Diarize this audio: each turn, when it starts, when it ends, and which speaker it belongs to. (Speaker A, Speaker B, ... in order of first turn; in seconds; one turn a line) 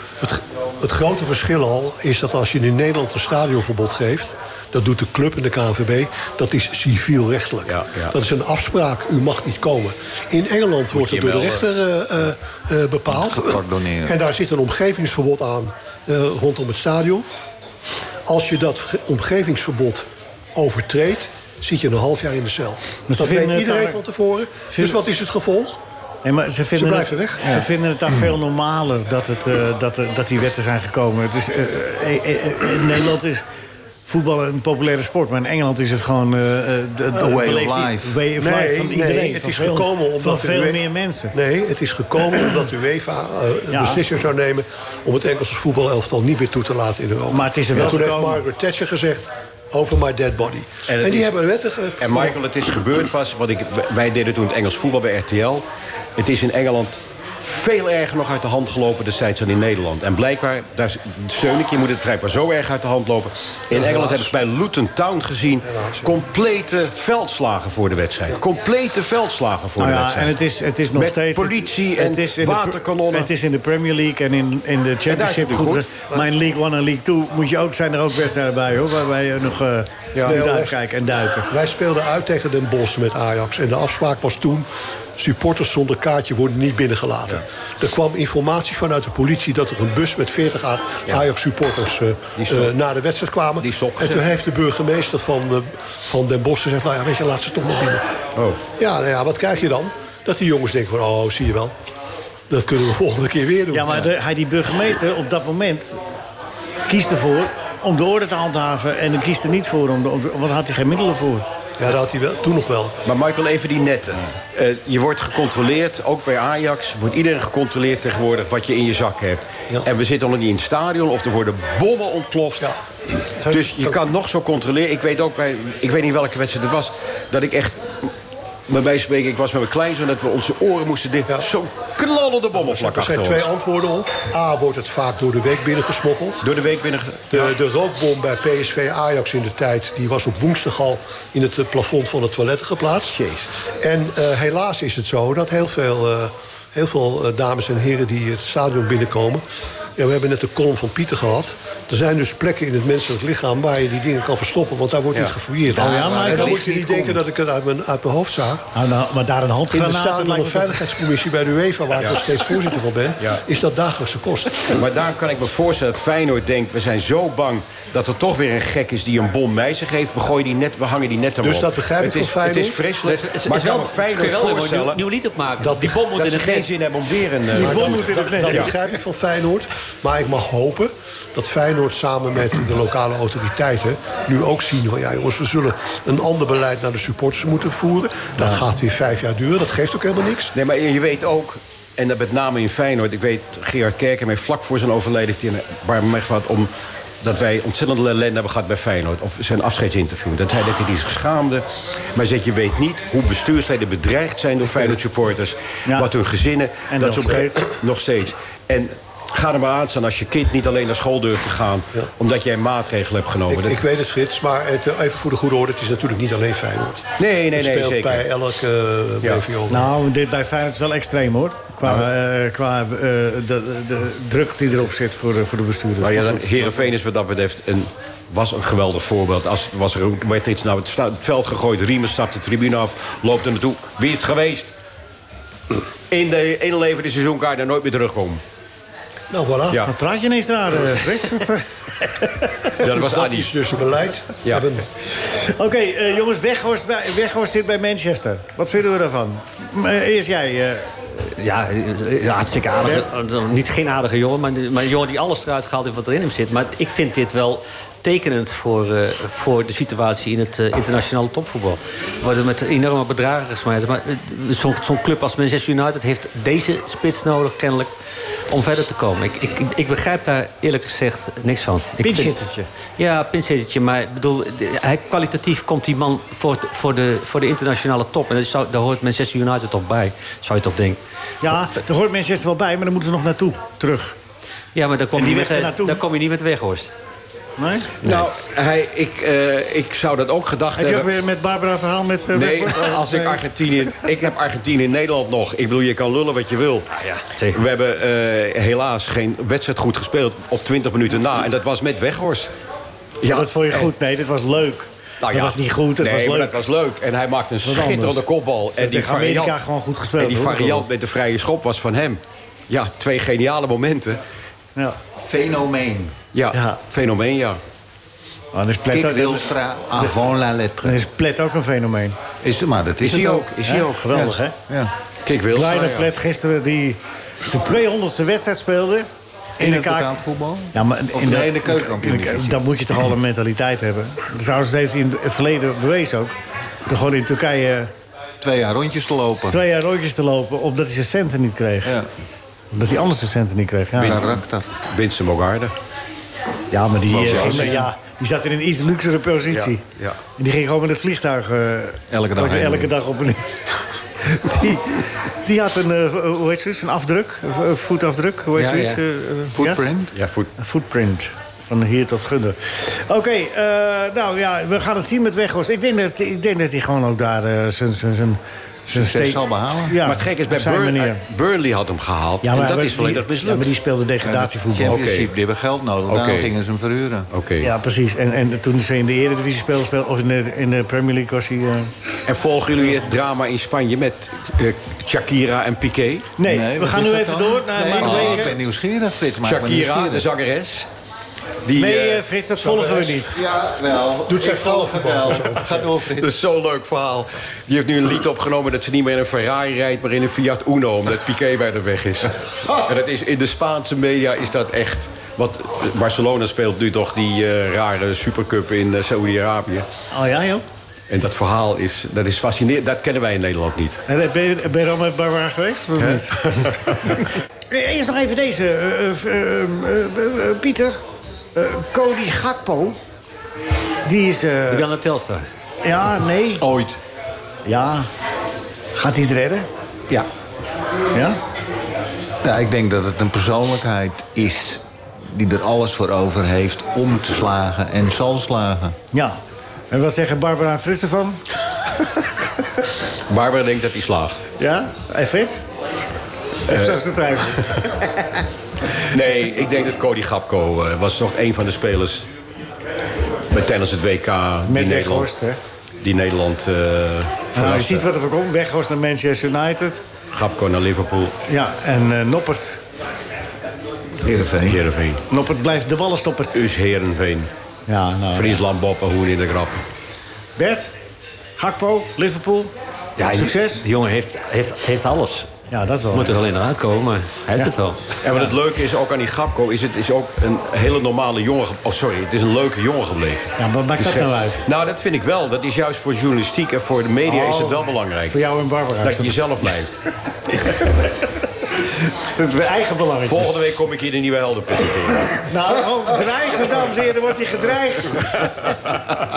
Speaker A: 0.2-17.3
Speaker B: 7.7-8.2
Speaker B: 10.9-11.7
Speaker C: 13.1-14.2
Speaker A: 18.3-25.8
Speaker D: 23.1-24.0
Speaker D: 24.7-25.0
Speaker D: 26.2-33.4
Speaker A: 26.8-27.6
Speaker D: 34.1-41.4
Speaker C: 37.1-38.2
Speaker A: 38.4-52.4
Speaker D: 43.7-44.0
Speaker D: 47.3-48.4
Speaker B: 50.9-51.3
Speaker B: 52.0-55.6
Speaker B: 56.2-70.4
Speaker A: 63.7-64.3
Speaker A: 65.6-66.2
Speaker D: 69.8-81.5
Speaker B: 70.9-73.3
Speaker B: 75.1-75.9
Speaker A: 80.2-80.8
Speaker A: 81.5-98.1
Speaker B: 92.4-92.7
Speaker B: 93.6-94.3
Speaker B: 98.4-98.6
Speaker A: 98.8-101.7
Speaker A: 102.5-104.1
Speaker D: 103.7-106.0
Speaker D: 106.9-111.5
Speaker A: 111.8-113.0
Speaker B: 113.0-122.7
Speaker A: 123.4-124.0
Speaker B: 123.5-128.1
Speaker B: 128.7-133.5
Speaker A: 132.5-136.5
Speaker B: 136.4-137.5
Speaker A: 137.3-143.2
Speaker B: 143.1-143.5
Speaker A: 143.8-149.4
Speaker A: 150.0-158.7
Speaker C: 155.7-157.3
Speaker D: 155.7-156.6
Speaker D: 158.7-160.8
Speaker A: 159.7-164.7
Speaker B: 164.8-175.0
Speaker A: 171.4-172.8
Speaker E: 173.0-176.7
Speaker A: 175.6-176.0
Speaker B: 176.0-178.7
Speaker D: 177.5-178.7
Speaker A: 177.6-190.5
Speaker B: 190.6-196.7
Speaker B: 197.2-213.8
Speaker D: 206.9-207.6
Speaker A: 213.5-219.9
Speaker B: 217.2-218.2
Speaker D: 219.7-226.9
Speaker B: 226.0-234.7
Speaker B: 236.1-238.4
Speaker A: 239.3-239.8
Speaker D: 239.9-242.7
Speaker B: 242.8-243.5
Speaker A: 242.8-244.9
Speaker B: 244.4-244.7
Speaker D: 245.3-250.9
Speaker E: 251.2-267.9
Speaker E: 268.5-272.4
Speaker D: 272.0-272.7
Speaker E: 273.0-281.0
Speaker D: 281.4-284.2
Speaker E: 284.8-286.9
Speaker D: 285.2-286.0
Speaker D: 287.6-287.9
Speaker E: 288.0-288.3
Speaker B: 288.0-291.1
Speaker D: 290.8-293.4
Speaker B: 292.3-296.9
Speaker E: 297.0-297.6
Speaker B: 297.5-302.5
Speaker B: 303.2-303.9
Speaker D: 303.3-306.6
Speaker B: 305.2-309.6
Speaker D: 307.6-310.9
Speaker B: 310.2-314.2
Speaker C: 315.2-316.2
Speaker B: 316.3-317.6
Speaker D: 316.5-316.8
Speaker D: 318.5-320.1
Speaker C: 318.9-321.0
Speaker D: 320.8-322.2
Speaker C: 322.4-323.5
Speaker B: 323.0-324.1
Speaker D: 323.1-324.6
Speaker C: 324.1-324.9
Speaker B: 325.2-326.1
Speaker D: 325.5-330.2
Speaker C: 329.6-332.6
Speaker D: 330.7-336.4
Speaker D: 336.9-337.9
Speaker C: 338.4-339.6
Speaker D: 339.5-341.9
Speaker C: 341.8-342.1
Speaker D: 342.7-344.3
Speaker B: 344.0-345.7
Speaker C: 344.0-344.7
Speaker D: 346.7-349.8
Speaker B: 347.1-347.9
Speaker B: 349.5-350.2
Speaker D: 350.4-353.6
Speaker C: 352.1-352.9
Speaker D: 354.2-359.8
Speaker E: 358.6-359.0
Speaker C: 359.6-360.1
Speaker B: 360.1-360.5
Speaker D: 360.6-371.2
Speaker C: 368.9-370.0
Speaker B: 370.0-373.8
Speaker D: 372.4-375.0
Speaker C: 374.2-377.3
Speaker B: 374.9-375.3
Speaker B: 376.1-376.5
Speaker B: 377.3-377.7
Speaker D: 377.6-381.9
Speaker B: 382.3-386.3
Speaker D: 386.4-388.6
Speaker C: 386.4-390.3
Speaker B: 388.0-388.5
Speaker B: 389.4-390.9
Speaker B: 391.6-392.2
Speaker D: 391.8-393.4
Speaker A: 392.6-393.3
Speaker C: 393.3-396.3
Speaker A: 394.3-395.9
Speaker B: 396.2-409.9
Speaker D: 410.1-410.6
Speaker B: 411.1-414.0
Speaker D: 414.1-421.0
Speaker B: 416.0-417.2
Speaker D: 421.6-423.0
Speaker D: 424.1-424.9
Speaker E: 424.7-425.5
Speaker D: 425.8-426.7
Speaker C: 426.6-427.0
Speaker D: 427.6-428.1
Speaker D: 429.0-429.7
Speaker D: 431.1-431.4
Speaker C: 432.4-438.9
Speaker D: 439.9-441.4
Speaker B: 443.3-444.4
Speaker D: 444.6-445.6
Speaker D: 446.7-448.4
Speaker B: 446.7-447.8
Speaker B: 449.1-452.3
Speaker B: 453.5-455.3
Speaker D: 454.7-455.6
Speaker B: 456.0-458.1
Speaker D: 457.6-460.0
Speaker B: 460.3-461.4
Speaker D: 461.5-462.8
Speaker C: 464.2-464.8
Speaker B: 464.6-465.2
Speaker D: 465.3-466.6
Speaker B: 466.5-467.5
Speaker D: 467.9-468.6
Speaker B: 468.3-469.8
Speaker D: 470.6-470.9
Speaker D: 471.6-472.7
Speaker E: 473.2-475.5
Speaker D: 473.3-473.9
Speaker D: 475.7-476.4
Speaker E: 476.1-478.1
Speaker B: 478.2-488.4
Speaker D: 483.6-484.7
Speaker D: 487.3-489.4
Speaker B: 489.0-490.0
Speaker D: 490.6-491.3
Speaker D: 492.0-493.6
Speaker B: 493.3-495.4
Speaker D: 495.4-498.8